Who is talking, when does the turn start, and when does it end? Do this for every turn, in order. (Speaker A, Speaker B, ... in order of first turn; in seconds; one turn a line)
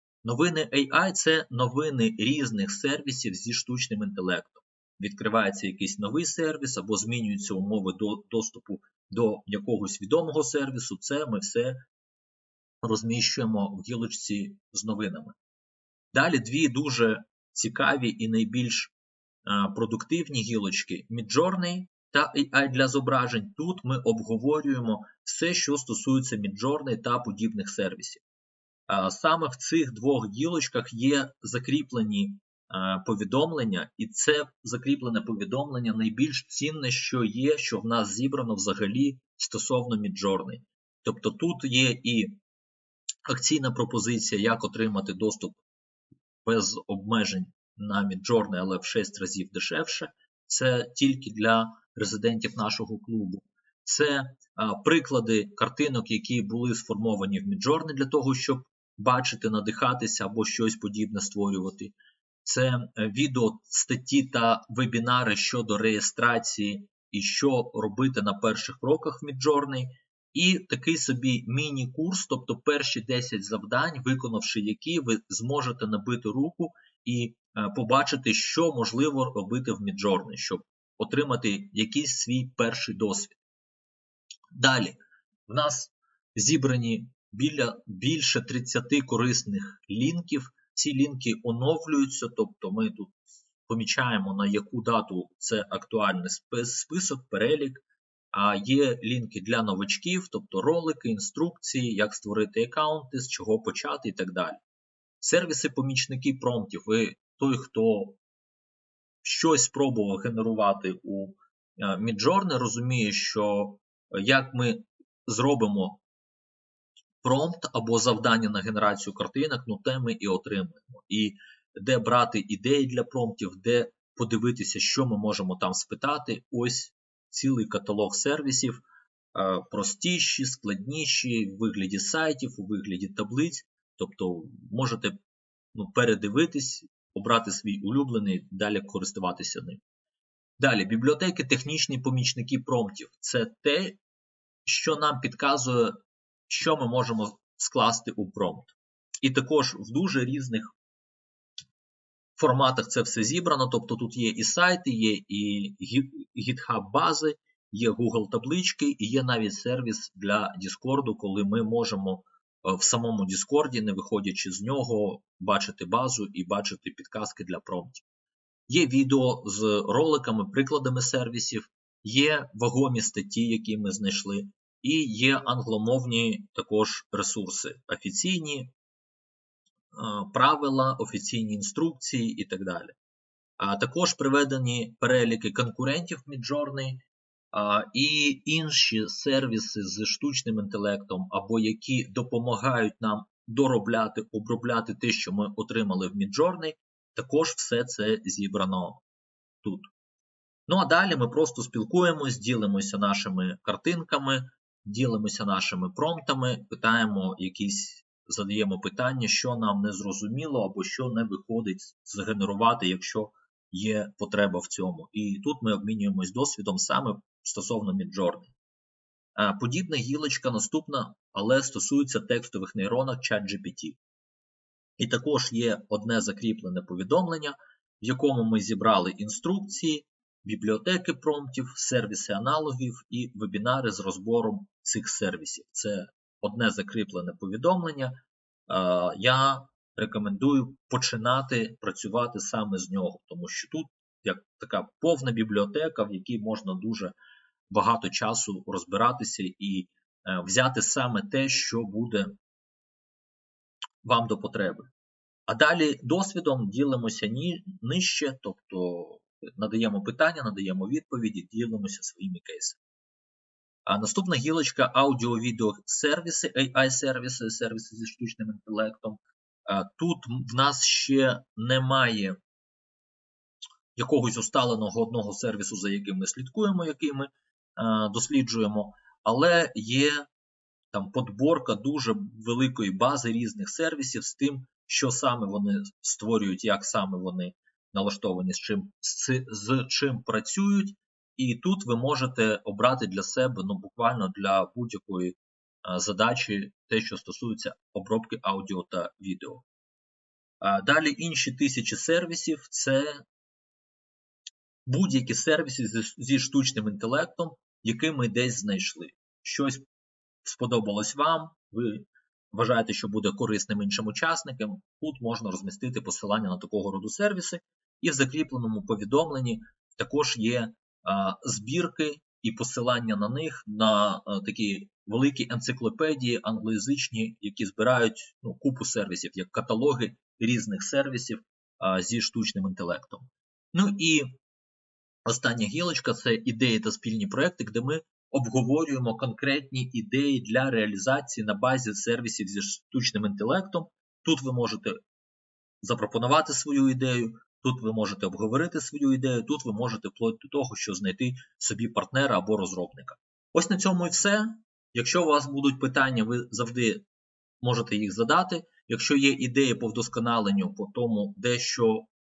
Speaker A: 0.2-11.8
Speaker A: 12.8-15.3
Speaker A: 16.1-18.9
Speaker A: 19.4-28.2
Speaker A: 28.9-42.4
Speaker A: 43.3-45.6
Speaker A: 46.4-83.4
Speaker A: 84.5-85.0
Speaker A: 85.5-93.1
Speaker A: 93.7-104.6
Speaker A: 105.2-108.2
Speaker A: 109.2-116.0
Speaker A: 117.2-128.8
Speaker A: 129.3-135.2
Speaker A: 135.7-139.8
Speaker A: 140.6-144.0
Speaker A: 144.7-150.7
Speaker A: 152.4-168.0
Speaker A: 168.7-178.7
Speaker A: 179.9-182.9
Speaker A: 183.6-199.0
Speaker A: 199.6-199.9
Speaker A: 200.7-218.5
Speaker A: 219.3-224.0
Speaker A: 225.0-238.2
Speaker A: 238.7-247.2
Speaker A: 247.7-252.3
Speaker A: 254.0-254.9
Speaker A: 255.5-262.8
Speaker A: 263.9-272.4
Speaker A: 273.9-280.3
Speaker A: 280.9-299.6
Speaker A: 300.6-303.2
Speaker A: 304.9-309.8
Speaker A: 310.4-334.4
Speaker A: 335.2-344.9
Speaker A: 345.8-357.0
Speaker A: 357.6-362.1